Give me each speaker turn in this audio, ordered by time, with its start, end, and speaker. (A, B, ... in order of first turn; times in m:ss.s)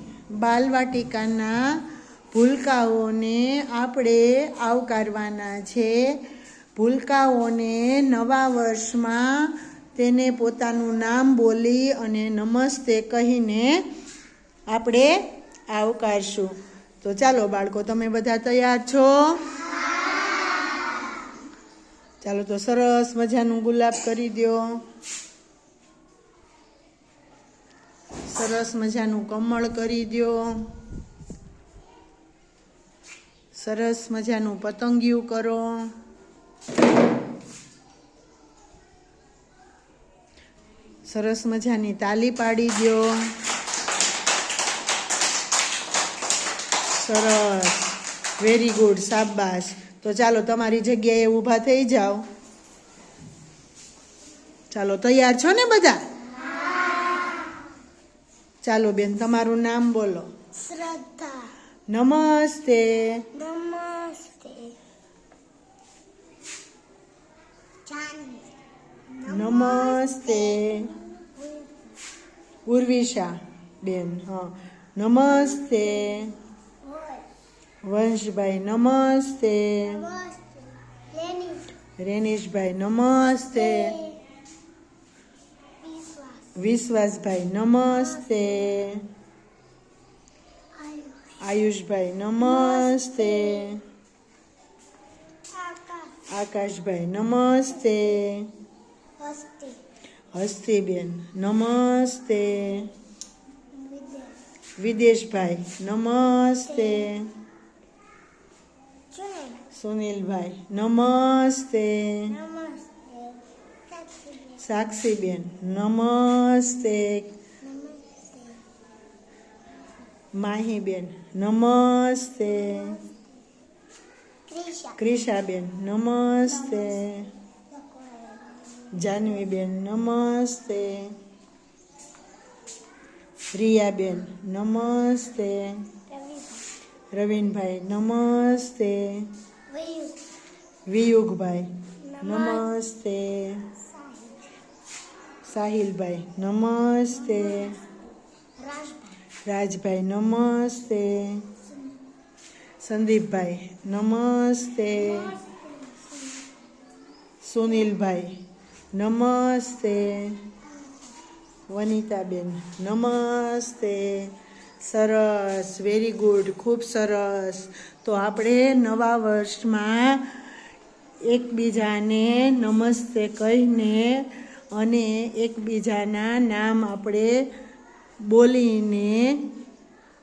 0:00.3-0:01.8 A
0:02.3-0:06.2 A
0:06.8-0:13.8 A
0:14.7-0:19.5 A
0:22.2-0:24.8 A
0:28.2-0:30.7 A
0:33.5-0:35.9 A
0:41.0-0:43.3 A
0:47.0-0:52.2 A
0:54.7-0:56.0 A
0:58.6-1:00.3 A
1:00.5-1:01.5 B
1:01.9-1:03.3 A
1:03.3-1:04.8 B
1:07.8-1:08.5 B
1:09.1-1:11.8 B
1:09.3-1:10.9 A
1:12.6-1:16.4 A
1:16.8-1:17.2 B
1:17.8-1:20.0 A
1:19.8-1:21.8 B
1:22.0-1:24.0 A
1:23.5-1:24.2 B
1:25.8-1:26.5 B
1:26.5-1:29.0 A
1:27.9-1:28.5 B
1:30.7-1:31.4 B
1:31.4-1:33.8 A
1:32.4-1:33.8 B
1:35.5-1:36.2 B
1:36.3-1:38.5 A
1:39.2-1:39.8 B
1:40.3-1:42.9 A
1:43.7-1:44.4 B
1:44.8-1:47.3 A
1:46.8-1:47.1 B
1:49.1-1:49.7 B
1:49.7-1:52.4 A
1:52.3-1:54.6 B
1:54.6-1:57.3 A
1:57.6-1:58.6 B
2:00.3-2:03.0 A
2:02.6-2:03.2 B
2:04.5-2:05.0 B
2:05.0-2:07.3 A
2:06.5-2:07.1 B
2:07.7-2:09.2 B
2:08.9-2:11.2 A
2:13.5-2:15.9 A
2:16.1-2:16.7 B
2:17.1-2:19.3 A
2:19.7-2:20.2 B
2:20.9-2:23.7 A
2:22.0-2:22.7 B
2:23.8-2:24.5 B
2:25.4-2:27.8 A
2:27.2-2:28.0 B
2:28.6-2:29.2 B
2:29.4-2:31.5 A
2:32.8-2:35.3 A
2:34.9-2:36.6 B
2:37.4-2:38.4 A
2:38.9-2:40.4 A
2:41.7-2:50.3 A
2:51.3-2:57.5 A
2:58.2-2:59.4 A